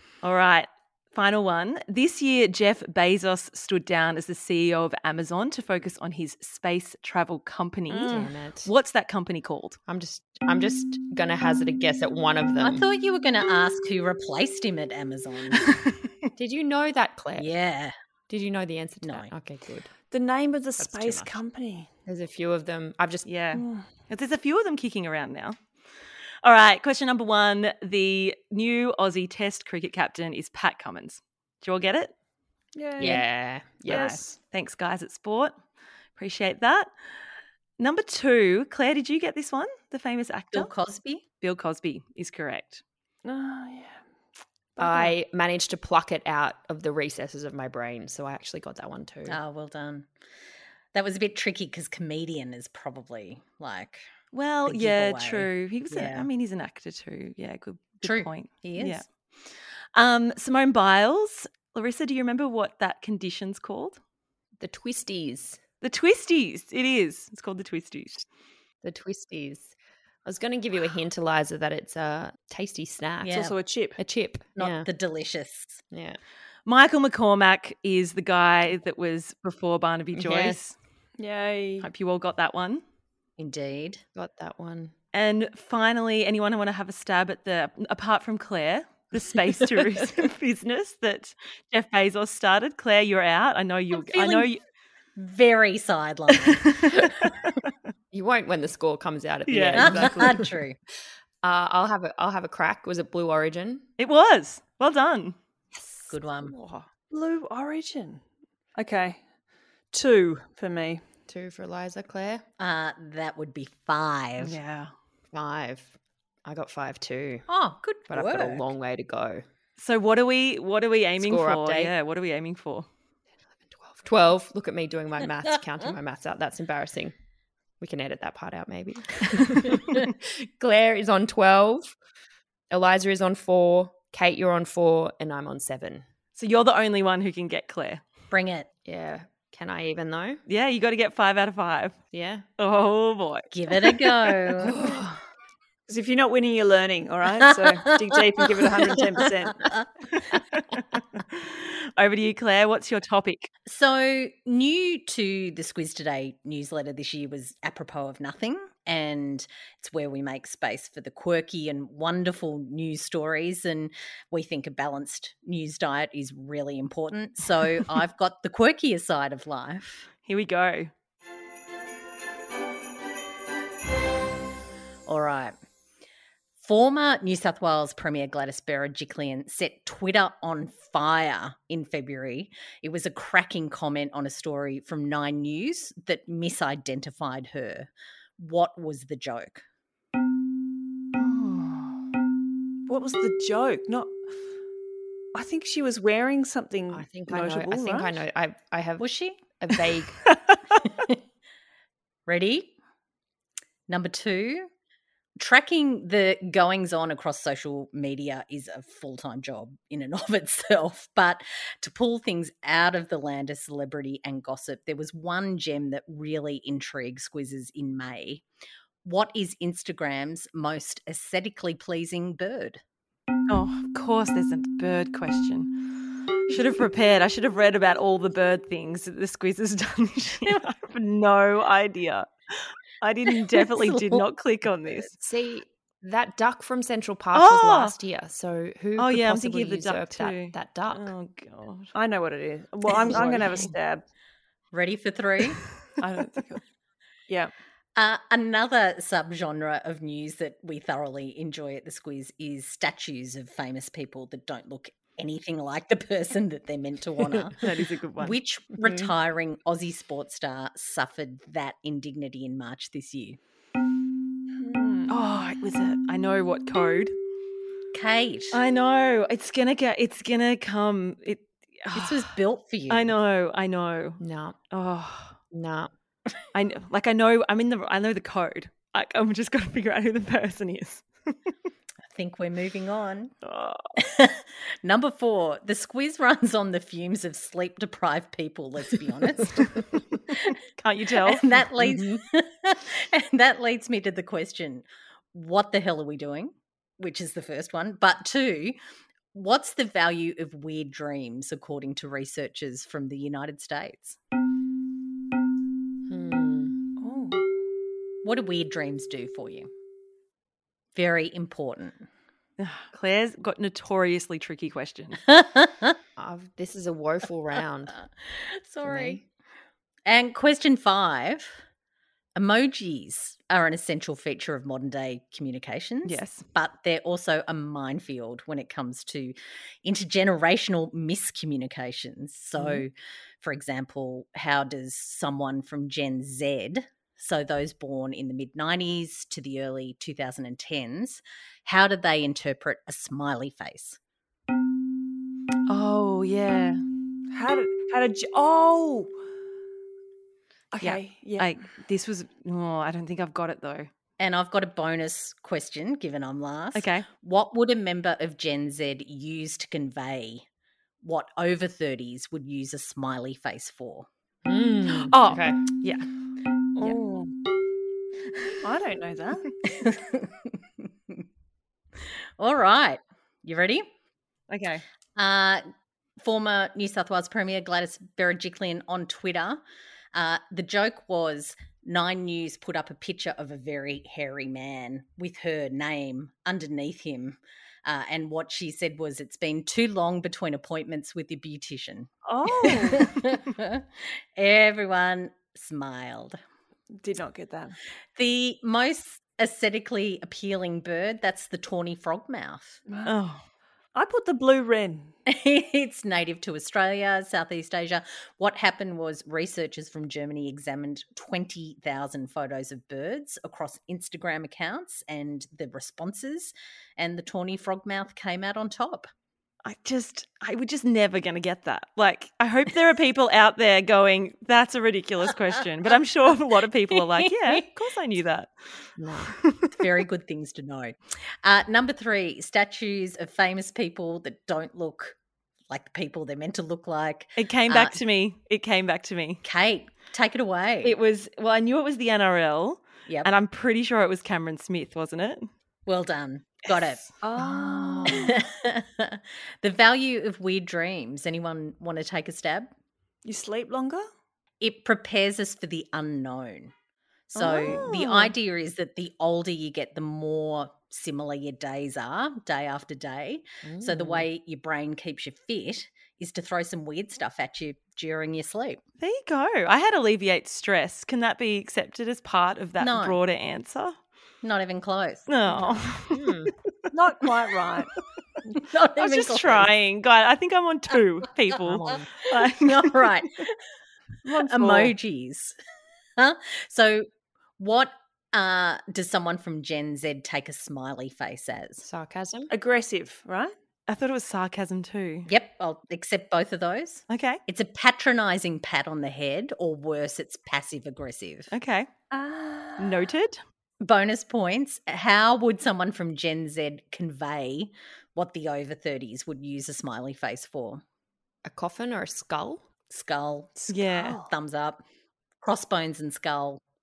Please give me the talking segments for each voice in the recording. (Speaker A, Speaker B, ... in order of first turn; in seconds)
Speaker A: 0.2-9.8, 15.6-16.1, 23.2-25.6, 26.4-32.1, 33.9-35.5, 36.1-36.9, 37.8-40.7, 41.4-42.8, 54.3-59.1, 59.9-64.0, 65.8-68.3, 76.7-80.8, 81.8-82.8, 85.1-94.6, 97.4-97.7, 99.5-100.4, 104.0-105.4, 114.4-114.9, 119.8-122.9, 136.4-138.0, 140.5-142.0, 142.6-143.5, 150.3-153.5, 170.2-170.9, 223.5-225.8, 226.5-235.2, 237.3-237.9, 239.0-241.9, 243.1-243.6, 257.6-258.4, 265.1-267.1, 268.5-272.3, 272.9-274.2, 274.7-275.4, 276.5-281.4, 283.4-283.8, 290.8-291.5, 312.6-315.2, 326.0-326.4, 345.7-346.8, 350.8-353.9, 356.7-357.1, 364.9-366.1, 374.5-374.8, 403.1-403.4, 419.6-429.7, 437.4-439.4, 440.8-445.5, 457.4-458.1, 469.0-473.9, 475.3-476.7, 478.9-483.1, 493.9-495.3, 497.1-497.4, 501.5-501.9, 502.8-503.4, 513.7-514.2
Speaker B: 7.9-8.2, 20.1-21.9, 23.5-23.9, 32.8-33.3, 33.9-34.4, 43.2-44.0, 44.8-45.1, 73.3-74.0, 81.2-81.9, 107.1-108.2, 108.8-109.2, 109.9-111.0, 145.9-149.6, 191.2-191.9, 192.9-194.2, 195.3-198.2, 241.9-244.1, 246.0-246.6, 264.6-265.1, 307.0-307.5, 347.3-349.1, 350.7-351.6, 366.8-367.3, 368.6-369.5, 392.2-393.1, 397.0-397.8, 403.9-405.1, 447.2-448.4, 453.2-454.0, 457.4-458.2, 476.9-477.9, 484.2-484.9, 492.5-493.5, 502.1-503.0
Speaker C: 8.1-8.7, 9.9-12.8, 16.4-17.5, 18.3-19.9, 20.8-21.4, 22.1-23.3, 33.0-34.2, 44.8-49.4, 64.6-65.6, 68.8-69.7, 70.2-74.9, 75.9-76.2, 80.2-80.6, 84.1-84.9, 98.1-100.5, 101.4-103.9, 105.7-106.9, 111.3-112.4, 115.3-117.5, 118.1-119.4, 121.2-121.9, 123.8-127.1, 127.8-131.9, 132.7-136.0, 138.9-140.4, 142.1-142.4, 144.8-145.1, 196.9-200.3, 235.2-241.1, 243.1-243.6, 274.2-274.6, 275.5-275.9, 291.8-292.2, 306.1-306.8, 316.2-318.0, 318.8-319.2, 364.4-365.6, 429.0-429.4, 447.4-448.2, 463.6-464.2, 476.1-476.5, 481.6-482.1, 491.8-492.5, 511.4-512.6
Speaker D: 12.6-15.6, 17.4-17.9, 19.0-19.3, 40.5-41.2, 49.3-50.1, 50.9-54.0, 54.6-56.3, 58.0-59.0, 73.2-73.5, 74.6-75.8, 83.4-84.0, 93.9-94.5, 95.2-97.3, 99.8-100.8, 106.1-106.5, 112.6-114.6, 117.5-118.7, 138.3-138.7, 143.5-144.9, 147.4-147.9, 148.9-149.9, 153.7-170.1, 175.1-175.6, 176.6-189.6, 199.0-199.4, 200.8-201.2, 202.3-202.7, 203.9-204.7, 205.4-218.4, 219.0-222.8, 233.5-234.2, 244.7-245.6, 247.9-263.4, 267.9-268.6, 271.9-273.1, 282.1-283.3, 284.0-289.8, 291.2-298.8, 299.3-304.2, 308.2-309.7, 310.9-312.1, 315.3-316.0, 318.2-319.2, 320.1-321.6, 322.4-344.0, 354.2-360.4, 361.0-364.1, 369.6-371.2, 372.0-373.9, 375.1-375.6, 376.2-379.6, 380.1-396.4, 398.1-402.8, 405.2-419.1, 426.9-427.6, 429.7-435.2, 435.7-437.9, 439.4-440.9, 445.9-447.1, 448.1-452.7, 454.6-456.7, 457.3-468.8, 472.8-473.2, 474.4-475.3, 478.6-479.7, 482.4-483.6, 484.3-485.6, 486.2-487.1, 487.6-491.9, 495.3-501.5, 503.8-510.8, 512.9-514.8, 515.4-516.6